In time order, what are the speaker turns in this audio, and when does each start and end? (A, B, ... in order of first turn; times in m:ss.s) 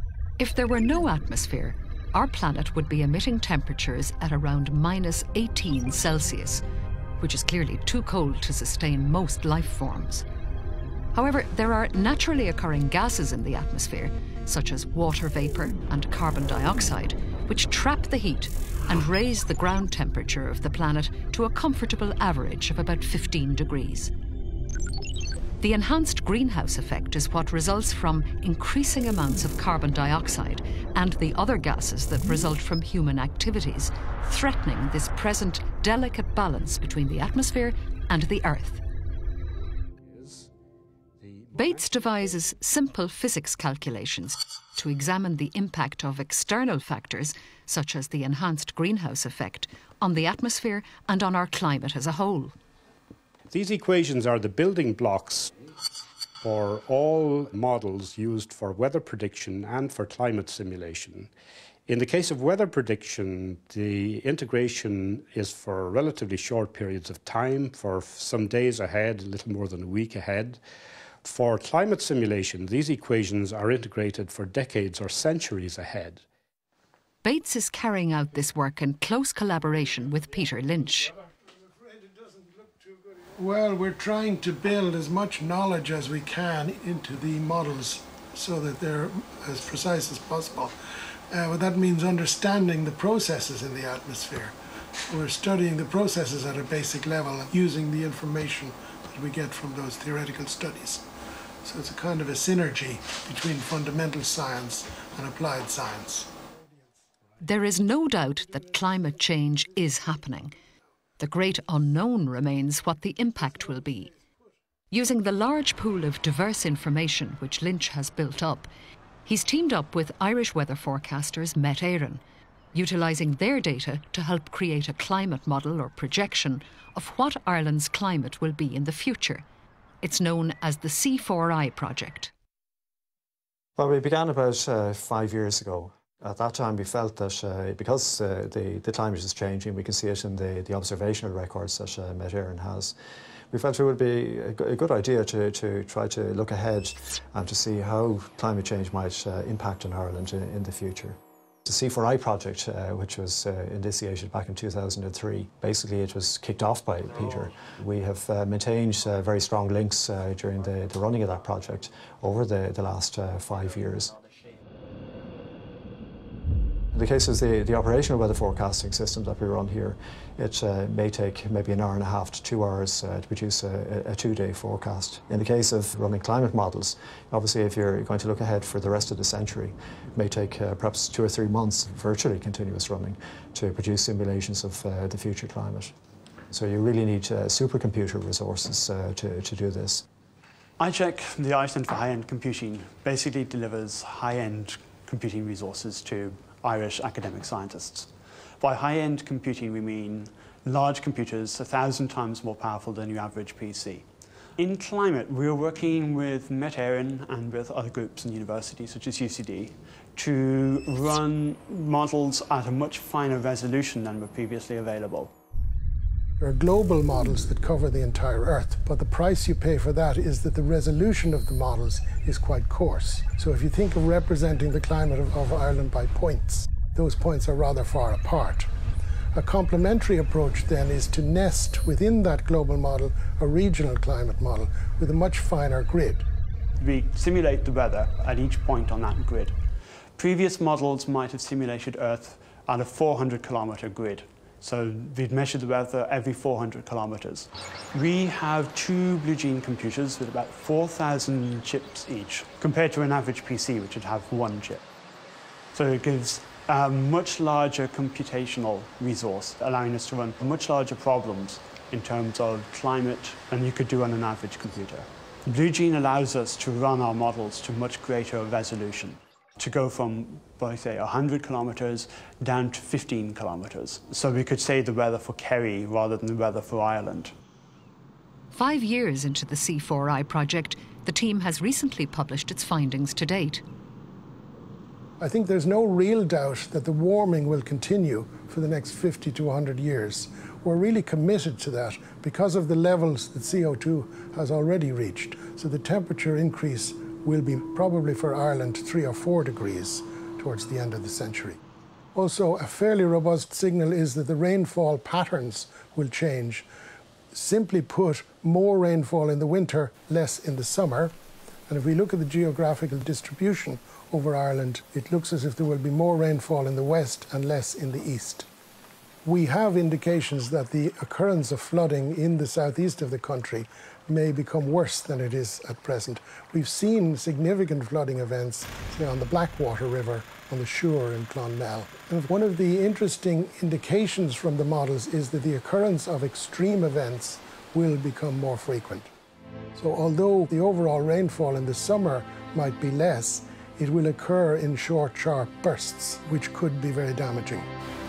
0:00.4-0:06.6 A
0:07.2-0:10.2 A
0:11.1-0:24.1 A
0:25.6-0:38.8 A
0:40.0-0:40.5 B
0:41.2-0:41.7 B
0:41.5-0:52.5 A
0:53.5-0:55.5 B
0:56.4-1:01.3 B
1:01.9-1:10.6 B
1:11.2-1:16.2 B
1:17.2-1:21.1 A
1:23.4-1:30.7 C
1:31.3-1:34.5 C
1:35.1-1:41.1 C
1:41.6-1:46.4 C
1:47.4-1:50.5 A
1:51.2-1:54.1 A
1:54.9-1:58.7 A
1:59.2-2:02.2 A
2:02.7-2:09.4 A
2:10.0-2:12.3 A
2:13.8-2:22.9 D
2:23.5-2:44.2 D
2:46.9-3:05.9 D
3:06.5-3:10.0 D
3:10.8-3:24.0 E
3:24.6-3:35.3 E
3:36.4-3:48.7 C
3:49.3-3:56.2 C
3:56.8-3:59.6 E
4:00.2-4:14.8 E
4:15.7-4:37.3 E
4:38.5-4:43.6 A
4:45.2-5:01.6 C
5:02.1-5:06.7 C
5:07.3-5:11.1 C
5:11.7-5:18.5 C
5:19.2-5:39.1 C
5:39.8-5:47.7 C